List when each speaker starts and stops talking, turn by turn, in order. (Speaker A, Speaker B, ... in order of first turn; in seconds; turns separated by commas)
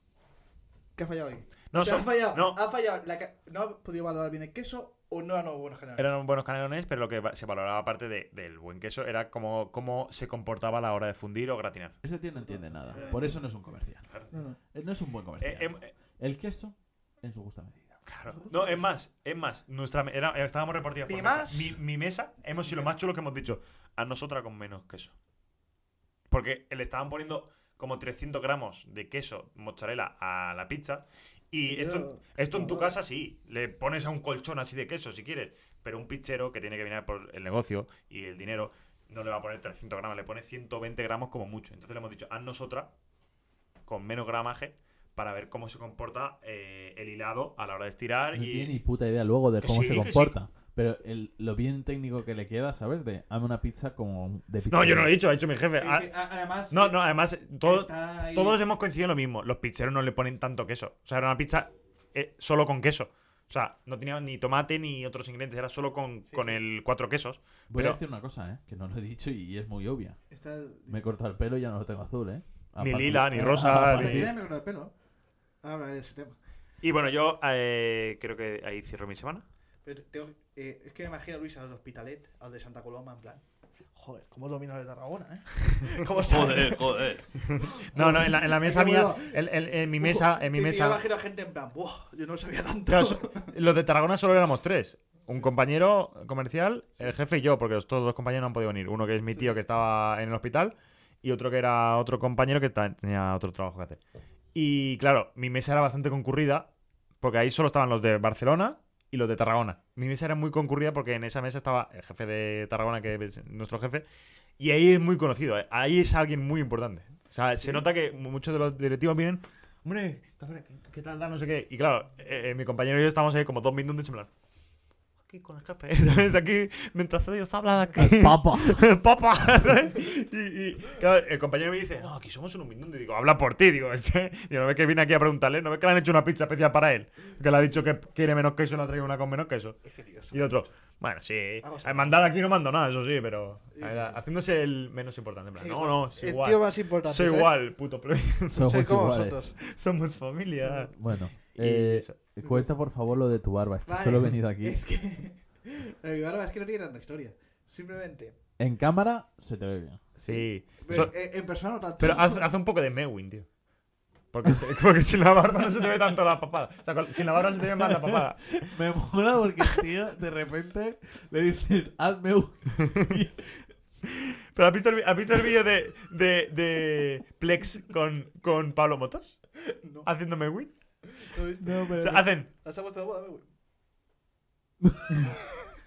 Speaker A: 1.0-6.1, Speaker B: 1.7-2.6, Speaker B: 6.0-12.0, Speaker C: 12.0-14.1, Speaker A: 12.5-13.4, Speaker A: 14.3-14.6, Speaker C: 14.7-18.0, Speaker B: 15.4-15.9, Speaker B: 18.1-25.1, Speaker A: 18.3-18.8, Speaker A: 21.1-21.8, Speaker B: 26.3-42.9, Speaker A: 31.7-33.0, Speaker B: 43.9-48.7, Speaker C: 48.3-55.2, Speaker B: 49.6-50.3, Speaker B: 54.7-56.1, Speaker A: 55.8-57.0, Speaker B: 56.7-68.0, Speaker A: 57.6-58.6, Speaker A: 66.3-66.6, Speaker C: 67.7-70.2, Speaker A: 70.3-71.0, Speaker C: 70.9-74.3, Speaker B: 72.8-74.3, Speaker A: 73.5-74.9, Speaker A: 75.6-76.4, Speaker B: 76.8-79.4, Speaker A: 79.8-83.4, Speaker A: 84.0-89.4, Speaker C: 86.2-87.3, Speaker B: 87.4-91.0, Speaker A: 90.0-93.5, Speaker B: 92.9-104.0, Speaker B: 104.5-106.7, Speaker B: 107.2-114.0, Speaker B: 114.6-124.3, Speaker B: 125.2-148.8, Speaker C: 128.0-128.8, Speaker A: 139.9-140.5, Speaker A: 141.6-142.2, Speaker A: 143.7-144.2, Speaker A: 145.6-147.5, Speaker C: 148.5-149.4, Speaker A: 148.6-149.6, Speaker B: 149.6-152.2, Speaker A: 150.6-150.9, Speaker C: 150.9-154.8, Speaker A: 153.9-158.4, Speaker C: 158.6-160.0, Speaker A: 160.2-162.4, Speaker B: 160.2-161.2, Speaker B: 162.0-163.5, Speaker B: 164.3-168.7, Speaker C: 167.8-173.7, Speaker B: 174.1-179.4, Speaker A: 179.7-180.1, Speaker B: 180.0-180.7, Speaker A: 181.2-183.5, Speaker C: 181.6-182.3, Speaker B: 182.0-182.5, Speaker C: 184.8-185.2